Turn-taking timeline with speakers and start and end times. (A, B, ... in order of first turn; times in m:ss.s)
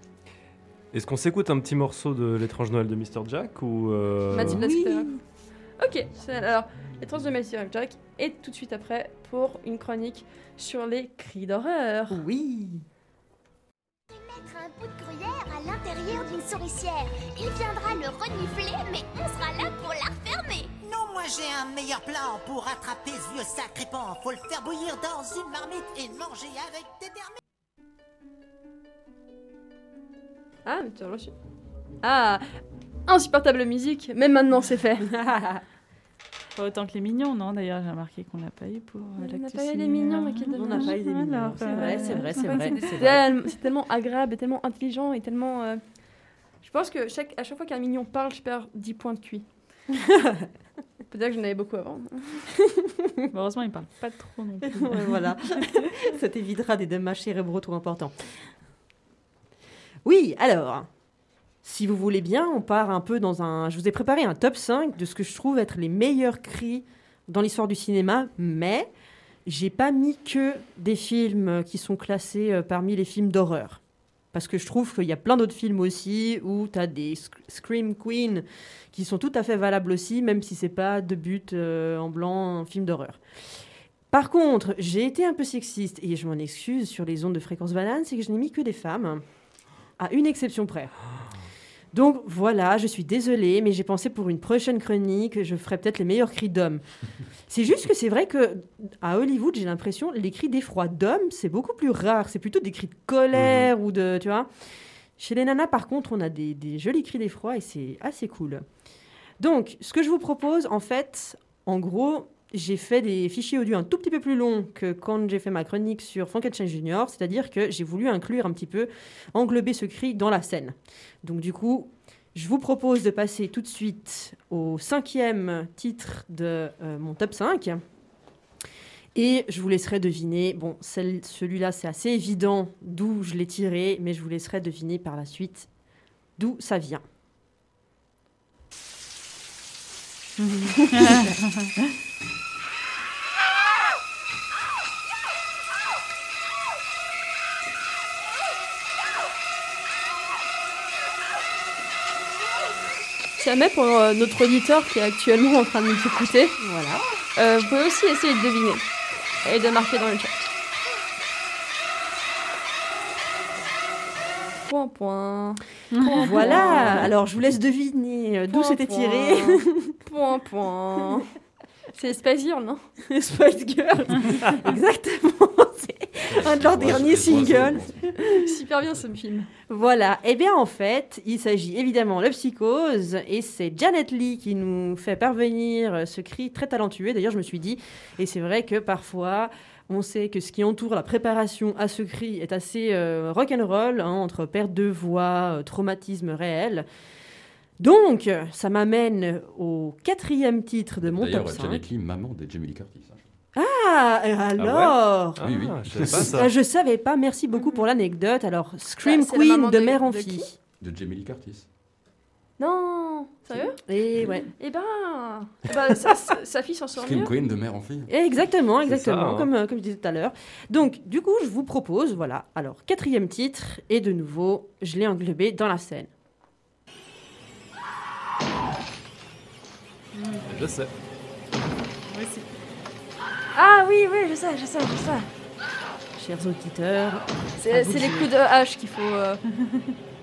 0:00.9-0:04.6 A
0:04.3-0:05.1 B
0:04.4-0:05.2 C
0:05.8-0:12.2 B
0:12.1-0:12.8 C
0:14.1-0:20.8 D
0:20.8-0:27.3 E
0:30.6-0:31.3 B
0:32.0-0:32.4 B
0:33.1-0:35.2 B
0:35.1-0:35.6 C
0:36.6-0:42.9 F
0:39.2-0:41.0 B
0:40.6-0:43.2 C
0:41.6-0:45.8 B
0:46.6-0:49.5 B
0:51.1-0:52.5 B
0:53.3-0:55.2 F
0:54.8-0:58.1 C
1:00.0-1:00.9 C
1:01.6-1:08.9 C
1:09.4-1:13.8 C
1:14.3-1:23.2 C
1:24.1-1:29.2 C
1:30.0-1:30.9 C
1:31.9-1:36.8 C
1:37.5-1:44.5 C
1:43.4-1:43.7 A
1:45.2-1:48.6 C
1:49.4-2:07.8 C
2:09.1-2:15.7 C
2:16.4-2:17.0 C
2:20.4-2:21.7 F
2:20.9-2:21.4 C
2:33.4-2:36.6 B
2:36.6-2:37.0 C
2:37.4-2:38.8 B
2:39.4-2:40.5 B
2:44.6-2:47.1 B
2:45.9-2:46.5 F
2:46.1-2:50.0 C
2:48.5-2:51.3 B
2:51.9-2:52.8 B
2:53.1-2:58.2 C
2:56.3-2:57.9 G
2:56.4-2:59.5 B
2:59.7-3:16.8 C
3:17.8-3:21.8 C
3:21.0-3:23.2 G
3:23.5-3:25.4 C
3:24.6-3:26.5 A
3:25.4-3:26.4 G
3:26.0-3:30.5 C
3:29.0-3:30.4 B
3:30.8-3:31.6 G
3:32.6-3:33.8 B
3:33.5-3:34.5 C
3:34.6-3:37.3 B
3:37.0-3:38.1 G
3:38.1-3:46.1 C
3:38.9-3:39.5 A
3:50.1-3:50.5 F
3:50.5-3:50.9 A
3:52.1-3:52.5 F
3:53.5-3:55.3 B
3:56.2-3:58.3 C
3:57.6-3:59.4 B